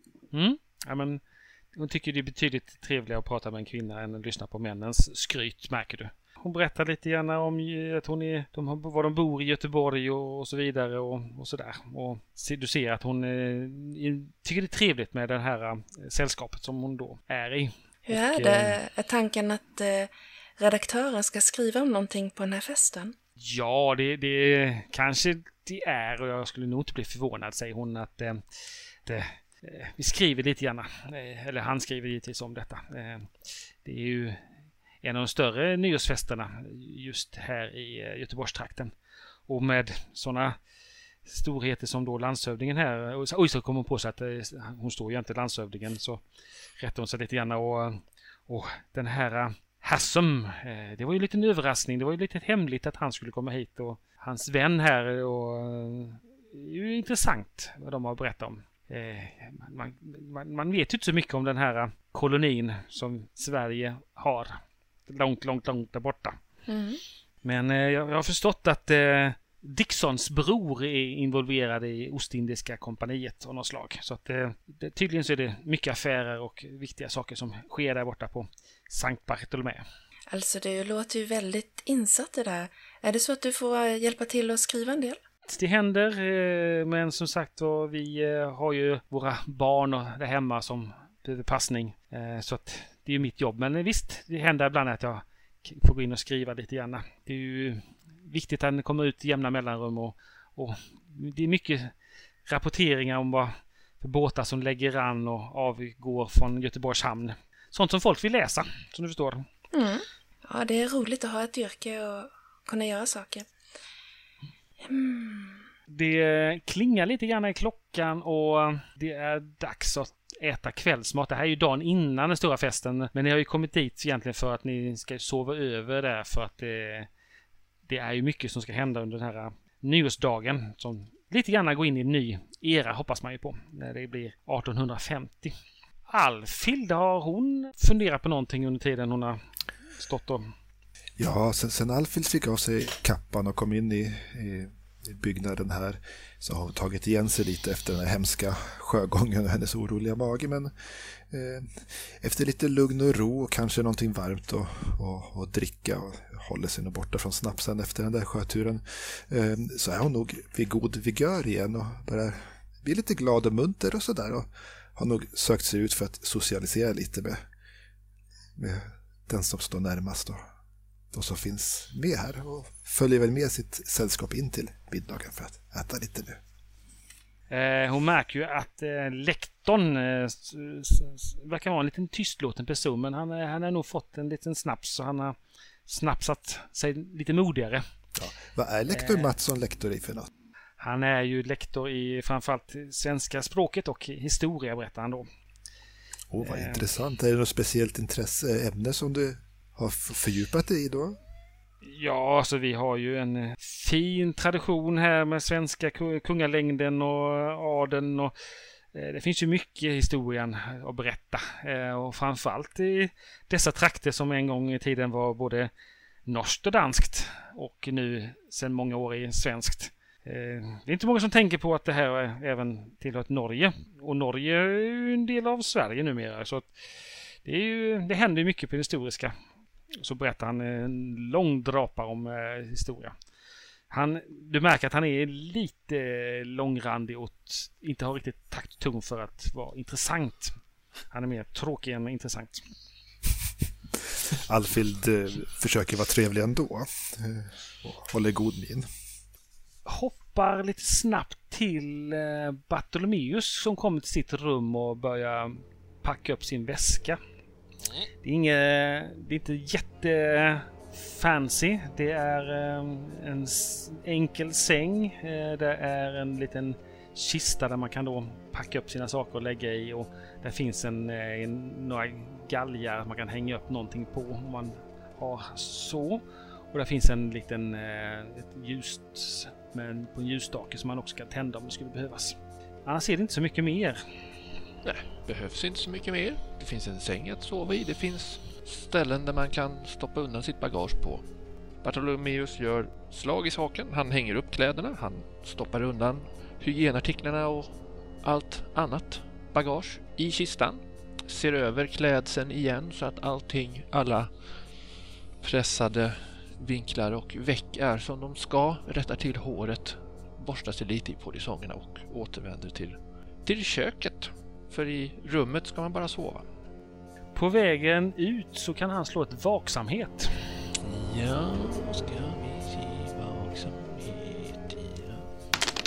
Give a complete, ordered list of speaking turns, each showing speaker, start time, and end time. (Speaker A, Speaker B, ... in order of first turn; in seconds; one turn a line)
Speaker A: 0.3-1.2
Speaker A: 1.7-18.8
Speaker B: 18.1-23.1
Speaker A: 23.4-28.4
Speaker A: 29.1-33.3
Speaker A: 33.8-34.4
Speaker A: 35.0-38.9
Speaker A: 39.5-40.6
Speaker A: 41.3-46.2
Speaker A: 46.8-66.4
Speaker B: 66.7-67.0
Speaker A: 67.4-79.8
Speaker B: 80.3-85.2
Speaker A: 85.5-101.9
Speaker A: 102.5-109.5
Speaker B: 109.7-113.5
Speaker B: 114.8-115.6
Speaker A: 115.9-127.1
Speaker A: 127.9-135.5
Speaker A: 136.1-139.4
Speaker A: 140.0-140.5
Speaker C: 141.2-150.7
Speaker C: 151.3-167.4
Speaker C: 168.6-170.4
Speaker C: 171.1-176.4
Speaker A: 177.5-185.4
Speaker A: 185.9-187.8
Speaker C: 188.2-190.3
Speaker A: 188.9-189.3
Speaker A: 190.8-195.3
Speaker C: 196.3-201.2
Speaker A: 196.4-196.8
Speaker A: 201.8-208.3
Speaker A: 208.9-215.7
Speaker A: 216.3-226.7
Speaker A: 227.4-229.3
Speaker A: 230.0-233.1
Speaker A: 233.9-240.5
Speaker A: 241.1-242.6
Speaker C: 244.3-248.9
Speaker A: 249.9-257.2
Speaker A: 258.2-284.0
Speaker D: 284.8-291.2
Speaker D: 291.8-304.3
Speaker D: 305.4-316.5
Speaker A: 317.4-320.4
Speaker D: 320.8-325.3